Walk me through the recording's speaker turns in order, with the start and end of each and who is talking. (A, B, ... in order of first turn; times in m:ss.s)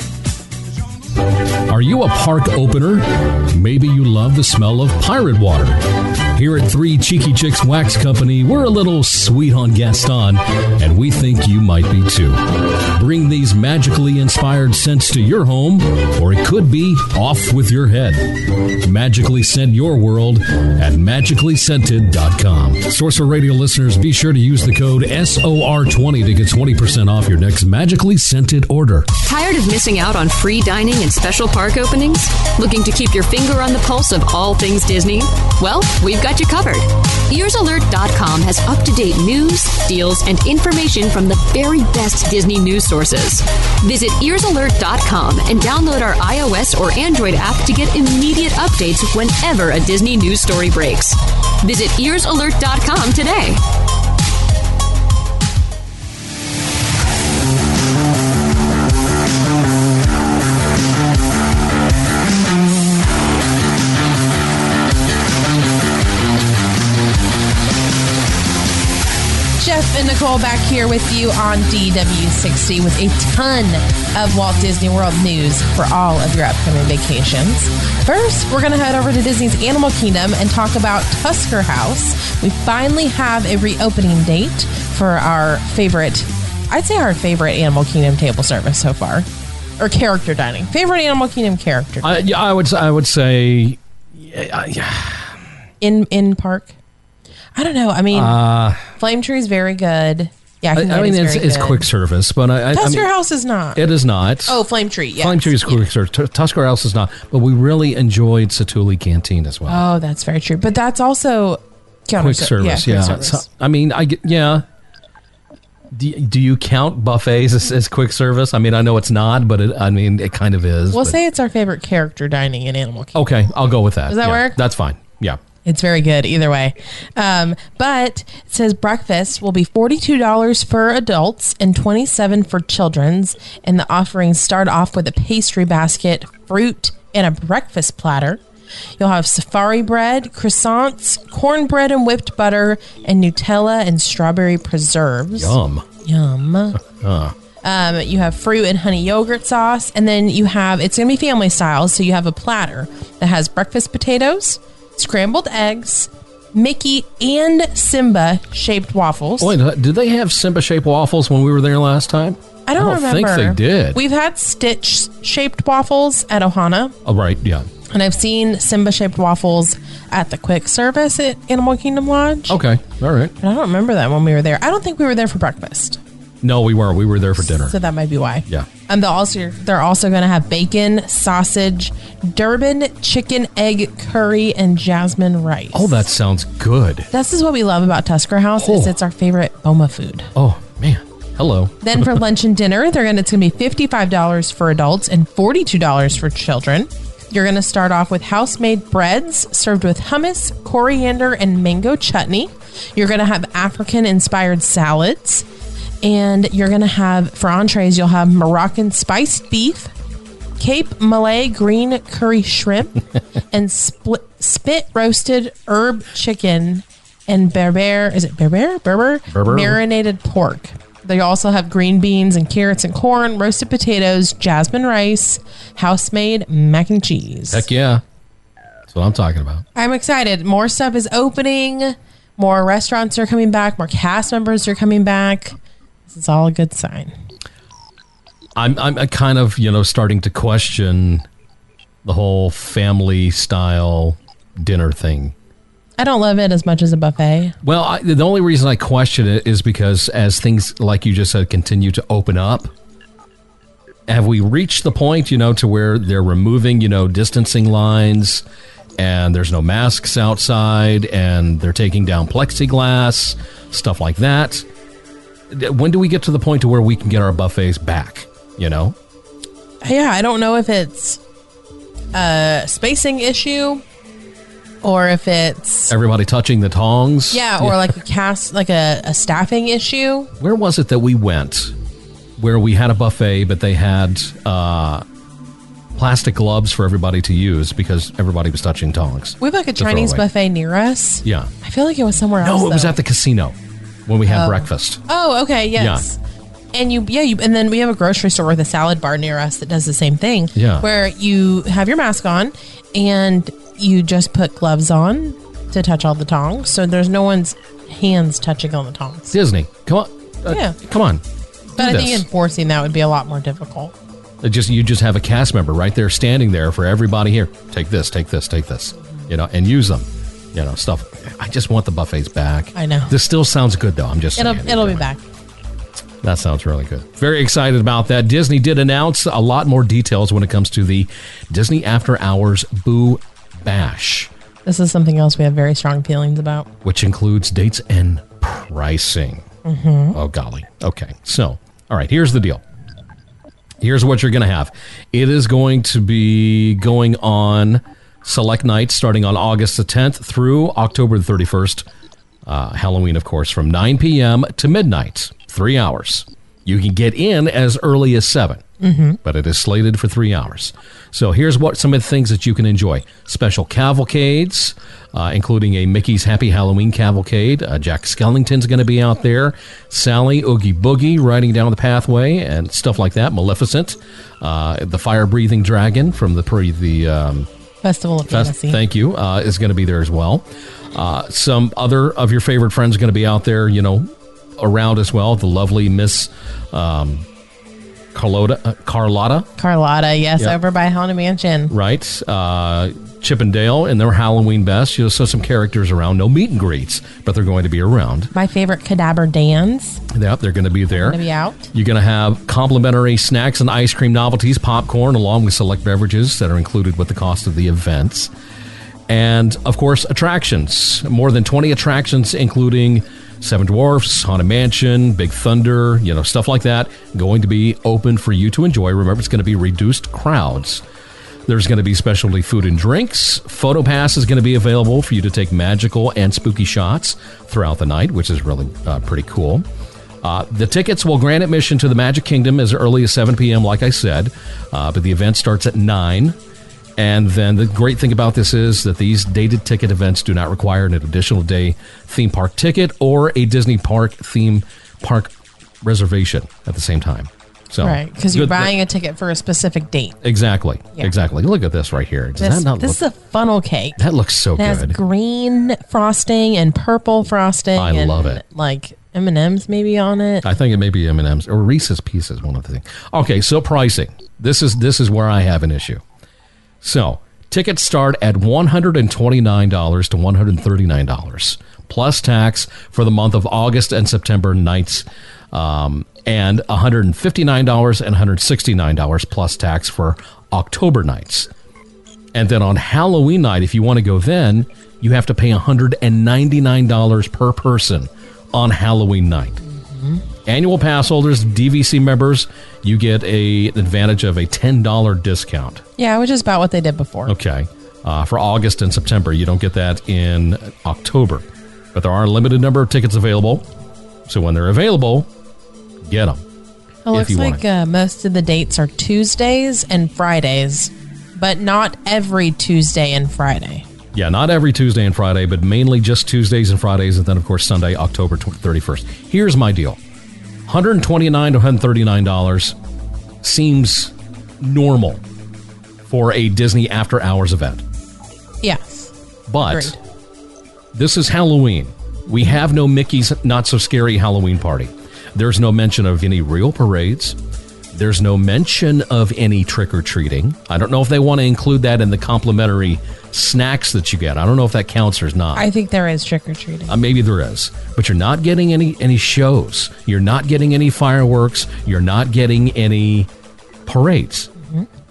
0:01.7-0:29.1 A
0:29.2-0:53.6 B
1:09.6-1:29.3 C
1:29.8-1:32.2 C
1:32.0-1:35.3 A
1:35.8-1:36.7 C
1:37.6-1:41.8 C
1:38.1-1:38.8 A
1:40.7-1:43.1 A
1:42.7-1:43.8 C
1:43.7-1:44.6 A
1:44.4-1:45.8 C
1:45.2-1:49.8 A
1:49.7-1:53.4 C
1:52.2-1:54.6 A
1:55.9-2:01.2 A
2:00.9-2:03.2 C
2:03.1-2:05.4 A
2:04.1-2:04.6 C
2:05.6-2:18.4 C
2:19.0-2:26.8 C
2:25.3-2:25.8 A
2:26.8-2:27.3 A
2:27.6-2:39.5 C
2:39.4-2:44.0 A
2:42.7-2:46.9 C
2:47.0-2:47.7 A
2:47.9-2:52.6 C
2:52.5-2:53.3 A
2:53.4-2:56.0 C
2:56.4-2:57.7 A
2:57.4-3:06.0 C
3:05.7-3:07.1 A
3:07.1-3:10.3 C
3:08.6-3:08.9 A
3:10.3-3:12.2 A
3:11.8-3:25.4 C
3:26.0-3:29.9 C
3:30.6-3:47.6 C
3:39.3-3:39.8 A
3:47.5-3:48.0 A
3:48.9-3:49.6 A
3:49.7-3:55.6 C
3:56.1-3:57.1 C
3:58.6-4:01.2 A
4:02.0-4:05.3 A
4:06.0-4:07.5 C
4:07.6-4:12.7 A
4:14.1-4:18.4 A
4:19.0-4:24.6 A
4:25.5-4:29.0 A
4:29.8-4:31.2 C
4:32.1-4:33.8 C
4:34.8-4:35.9 C
4:35.9-4:37.9 A
4:37.3-4:40.3 C
4:40.4-4:41.7 A
4:42.4-4:45.0 A
4:45.9-4:50.2 A
4:49.4-4:53.0 C
4:51.2-4:51.5 A
4:52.4-4:55.0 A
4:54.3-4:56.2 C
4:55.8-4:56.0 A
4:56.7-5:09.3 C
5:00.5-5:00.8 A
5:09.3-5:12.2 A
5:10.5-5:10.8 C
5:11.8-5:13.9 C
5:14.4-5:25.0 A
5:22.7-5:23.1 C
5:24.4-5:25.2 C
5:26.2-5:34.3 A
5:34.6-5:36.7 C
5:36.8-5:39.4 A
5:39.6-5:40.2 C
5:40.1-5:42.6 A
5:43.8-5:51.8 A
5:52.4-5:58.6 A
5:58.8-5:59.2 C
5:59.2-6:17.5 A
6:17.8-6:18.8 C
6:18.3-6:27.3 A
6:28.1-6:29.5 A
6:29.6-6:31.7 C
6:31.7-6:38.3 A
6:38.3-6:40.0 C
6:40.1-6:41.2 A
6:40.9-6:41.7 C
6:41.7-6:48.3 A
6:49.1-7:00.8 A
7:01.5-7:09.6 A
7:10.2-7:16.4 A
7:17.0-7:28.7 A
7:27.8-7:30.2 C
7:30.2-7:33.0 A
7:32.4-7:34.0 C
7:34.0-7:35.0 A
7:34.6-7:40.4 C
7:37.7-7:38.4 A
7:40.4-7:46.0 A
7:46.8-8:01.5 A
8:02.3-8:09.6 A
8:09.9-8:10.2 C
8:10.4-8:15.8 A
8:16.0-8:17.3 C
8:17.3-8:23.6 A
8:24.3-8:25.3 A
8:26.0-8:26.4 A
8:27.0-8:33.8 C
8:27.1-8:27.6 A
8:34.1-8:40.0 A
8:40.7-8:42.8 A
8:43.4-8:45.2 A
8:46.1-8:47.8 A
8:48.6-8:50.0 C
8:49.5-8:49.9 A
8:50.9-8:57.4 A
8:57.9-9:05.7 A
9:05.5-9:06.9 C
9:06.9-9:13.3 A
9:13.8-9:14.5 A
9:14.6-9:14.9 C